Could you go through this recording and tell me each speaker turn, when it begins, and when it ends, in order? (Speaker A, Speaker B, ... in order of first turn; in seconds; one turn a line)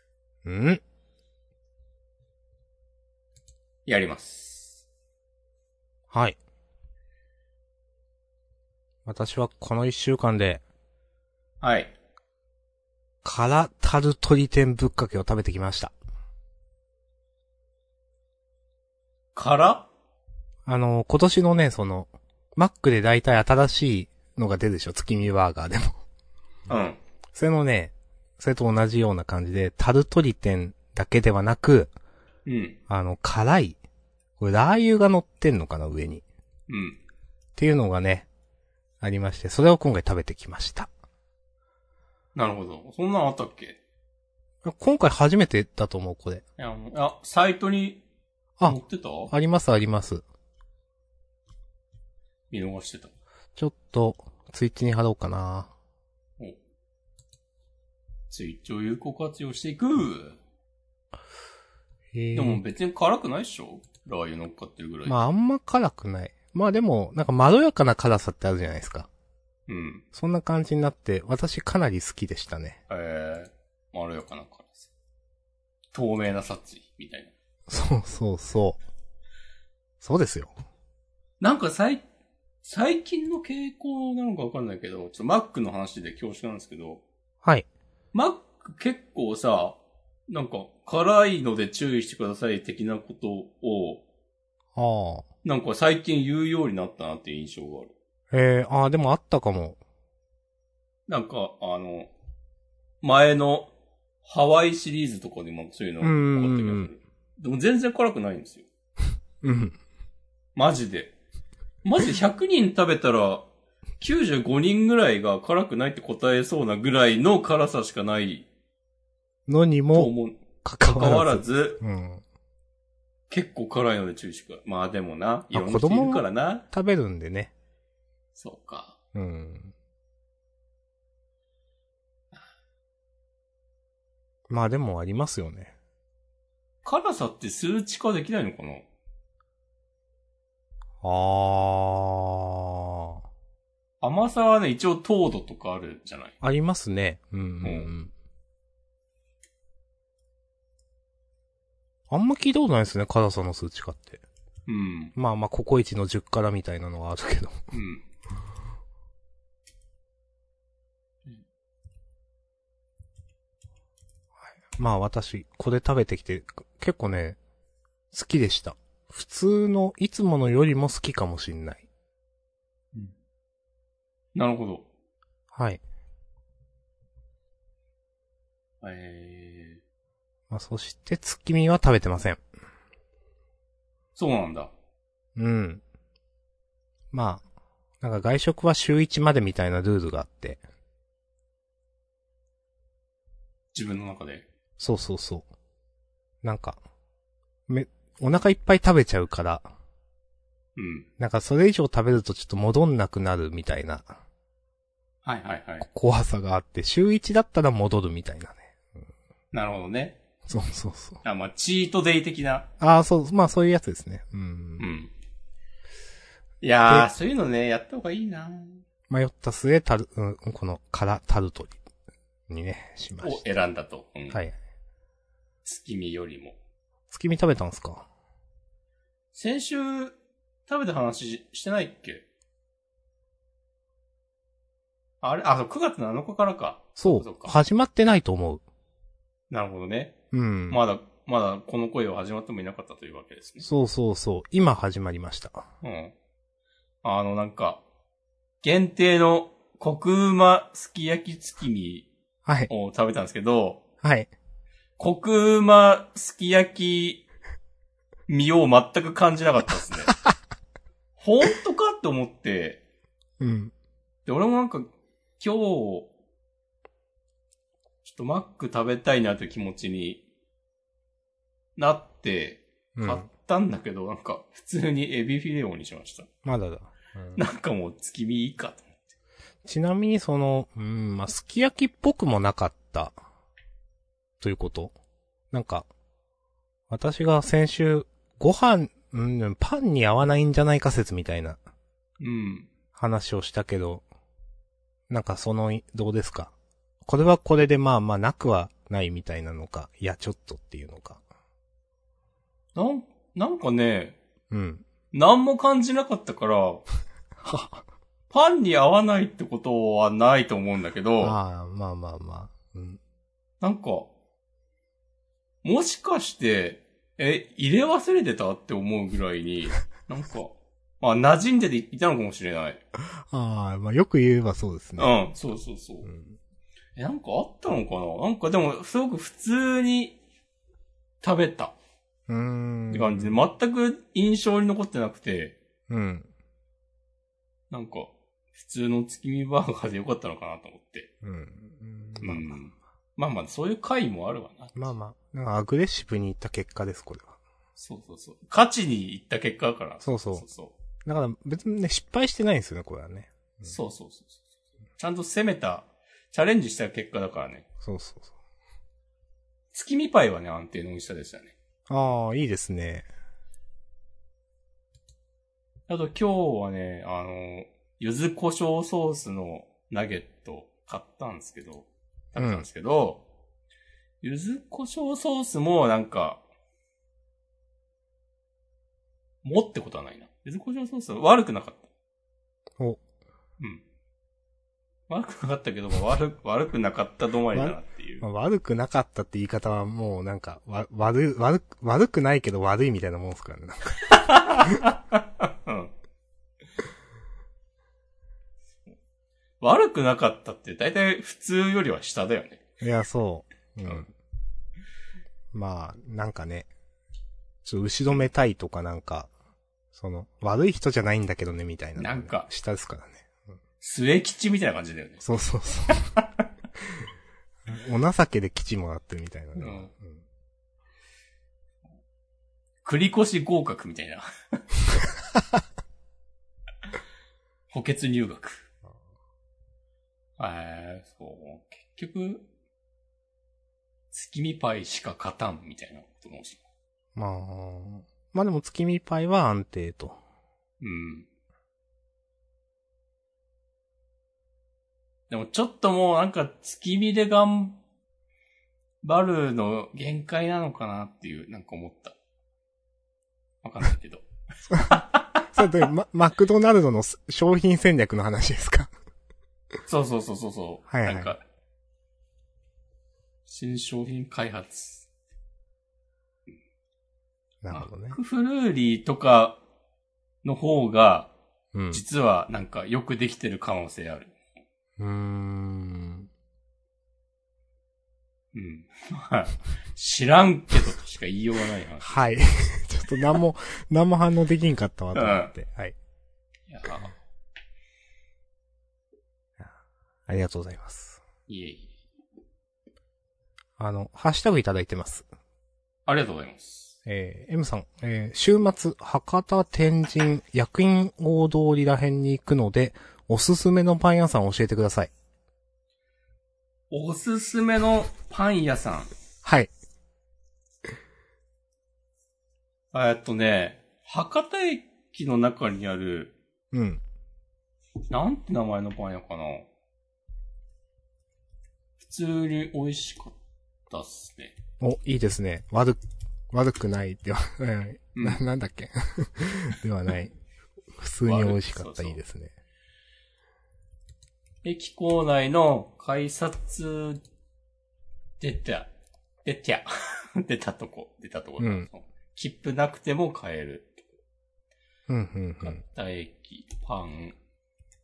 Speaker A: 0.5-0.8
Speaker B: 3.9-4.8
Speaker A: 6.1-6.4
Speaker A: 9.1-10.6
Speaker B: 11.6-11.9
Speaker A: 13.2-15.9
Speaker B: 19.4-19.9
Speaker A: 20.7-26.0
Speaker B: 26.7-27.0
Speaker A: 27.3-31.9
Speaker B: 32.5-32.8
Speaker A: 32.9-33.8
Speaker A: 34.4-36.2
Speaker B: 36.7-37.0
Speaker A: 37.6-38.3
Speaker A: 39.0-40.9
Speaker B: 42.4-43.8
Speaker A: 44.6-46.4
Speaker B: 46.6-48.0
Speaker B: 48.6-49.3
Speaker A: 49.3-50.2
Speaker B: 52.5-53.1
Speaker A: 53.6-55.7
Speaker B: 58.3-60.4
Speaker A: 62.1-62.6
Speaker B: 62.4-65.2
Speaker A: 65.1-69.1
Speaker B: 69.7-70.0
Speaker A: 70.1-72.8
Speaker B: 72.9-74.9
Speaker B: 75.9-77.3
Speaker A: 77.7-78.8
Speaker A: 80.0-80.5
Speaker B: 81.4-82.0
Speaker B: 82.6-87.0
Speaker B: 88.1-94.0
Speaker A: 94.8-95.3
Speaker B: 95.4-97.9
Speaker A: 98.3-99.8
Speaker B: 101.1-102.1
Speaker B: 103.0-103.7
Speaker B: 104.2-108.7
Speaker A: 106.0-106.9
Speaker A: 109.4-109.8
Speaker B: 110.6-111.1
Speaker B: 111.8-113.5
Speaker B: 114.0-118.5
Speaker A: 119.5-120.1
Speaker B: 119.9-121.8
Speaker A: 120.6-122.2
Speaker B: 123.3-126.7
Speaker A: 125.5-127.5
Speaker B: 128.4-129.0
Speaker A: 129.2-129.7
Speaker A: 134.5-135.7
Speaker B: 136.8-138.9
Speaker A: 141.0-143.2
Speaker B: 144.0-146.3
Speaker A: 146.4-148.1
Speaker B: 147.6-147.9
Speaker A: 152.1-154.2
Speaker B: 154.7-155.2
Speaker A: 155.2-157.7
Speaker B: 157.7-158.0
Speaker A: 164.7-167.4
Speaker A: 168.1-171.8
Speaker B: 174.3-174.9
Speaker A: 175.5-175.8
Speaker B: 178.8-179.8
Speaker A: 180.5-182.4
Speaker B: 184.2-184.7
Speaker A: 185.4-185.8
Speaker A: 187.1-187.4
Speaker A: 188.0-190.6
Speaker B: 193.7-194.5
Speaker A: 194.8-195.5
Speaker A: 196.4-196.8
Speaker A: 197.7-199.7
Speaker B: 200.8-201.1
Speaker A: 201.2-204.2
Speaker B: 205.2-205.9
Speaker A: 205.8-208.7
Speaker B: 209.5-210.2
Speaker A: 210.5-211.2
Speaker B: 211.2-212.7
Speaker A: 212.8-214.8
Speaker B: 214.8-215.1
Speaker B: 216.6-218.8
Speaker A: 219.1-221.8
Speaker A: 222.5-223.4
Speaker B: 223.2-224.4
Speaker A: 224.3-224.6
Speaker B: 225.7-226.6
Speaker A: 227.1-228.1
Speaker B: 229.3-232.2
Speaker B: 235.2-237.6
Speaker A: 237.0-238.6
Speaker B: 239.5-240.2
Speaker A: 240.3-240.8
Speaker B: 240.7-243.7
Speaker A: 243.6-245.7
Speaker B: 245.8-246.1
Speaker B: 247.0-247.8
Speaker B: 248.6-252.1
Speaker A: 252.4-252.7
Speaker B: 252.7-253.8
Speaker A: 254.0-254.3
Speaker B: 255.0-257.2
Speaker B: 258.3-260.2
Speaker B: 261.2-262.8
Speaker A: 263.4-263.7
Speaker B: 264.3-266.1
Speaker B: 268.0-270.2
Speaker B: 271.8-276.3
Speaker A: 273.0-273.2
Speaker A: 276.4-277.4
Speaker B: 277.4-279.0
Speaker A: 279.6-283.2
Speaker A: 284.4-284.9
Speaker A: 285.5-285.9
Speaker A: 286.9-291.6
Speaker B: 292.2-292.7
Speaker A: 292.9-294.0
Speaker A: 295.1-296.5
Speaker A: 297.1-301.2
Speaker B: 302.8-304.2
Speaker A: 304.5-304.9
Speaker B: 305.1-306.9
Speaker A: 307.4-307.8
Speaker B: 308.3-311.4
Speaker A: 311.2-313.0
Speaker B: 313.6-314.1
Speaker B: 315.6-322.8
Speaker A: 323.0-325.1
Speaker B: 325.0-326.1
Speaker A: 326.1-326.4
Speaker B: 327.0-330.2
Speaker B: 331.2-331.8
Speaker A: 332.3-333.4
Speaker B: 332.9-335.6
Speaker A: 335.9-336.3
Speaker B: 337.7-341.1
Speaker A: 341.2-342.6
Speaker B: 342.2-344.9
Speaker A: 344.8-347.4
Speaker B: 347.8-350.8
Speaker A: 350.0-350.5
Speaker A: 351.1-353.8
Speaker B: 353.6-354.4
Speaker B: 355.0-357.6
Speaker A: 357.8-358.3
Speaker B: 359.7-361.6
Speaker A: 361.9-363.1
Speaker B: 365.9-373.2
Speaker A: 372.4-372.6
Speaker B: 374.2-376.4
Speaker B: 379.4-381.9
Speaker B: 385.1-388.3
Speaker A: 387.5-394.8
Speaker B: 394.1-395.9
Speaker B: 399.6-402.6
Speaker A: 402.8-404.1
Speaker A: 405.5-406.7
Speaker A: 407.6-409.3
Speaker A: 409.9-413.3
Speaker B: 412.0-412.5
Speaker B: 413.8-415.2
Speaker A: 415.2-416.1
Speaker A: 417.7-420.2
Speaker B: 419.6-419.9
Speaker B: 422.8-424.6
Speaker B: 427.7-428.7
Speaker B: 430.4-432.4
Speaker B: 434.1-436.6
Speaker A: 437.2-440.2
Speaker B: 440.8-441.3
Speaker B: 445.3-447.8
Speaker B: 449.0-452.2
Speaker B: 453.6-455.6
Speaker A: 454.7-455.0
Speaker A: 455.5-458.9
Speaker B: 459.9-461.4
Speaker A: 460.9-461.3
Speaker B: 463.5-465.1
Speaker A: 467.6-468.2
Speaker B: 467.7-469.6
Speaker B: 470.4-471.3
Speaker A: 471.7-472.0
Speaker B: 471.9-474.3
Speaker A: 475.0-476.3
Speaker B: 478.5-482.2
Speaker A: 482.0-485.9
Speaker B: 485.1-485.5
Speaker B: 486.7-487.1
Speaker A: 490.3-491.2
Speaker B: 491.5-491.9
Speaker A: 493.8-495.3
Speaker B: 496.1-497.0
Speaker A: 497.1-505.1
Speaker B: 506.9-509.1
Speaker A: 509.4-509.7
Speaker B: 512.9-516.4
Speaker A: 516.7-517.0
Speaker B: 518.1-519.7
Speaker B: 522.0-523.4
Speaker B: 523.9-524.5
Speaker A: 524.8-526.0
Speaker A: 526.5-530.4
Speaker B: 528.1-528.4
Speaker A: 531.0-532.5
Speaker B: 531.2-532.2
Speaker B: 534.6-537.2
Speaker B: 538.4-538.9
Speaker B: 539.5-544.1
Speaker A: 541.6-541.9
Speaker A: 545.1-545.8
Speaker B: 545.6-547.4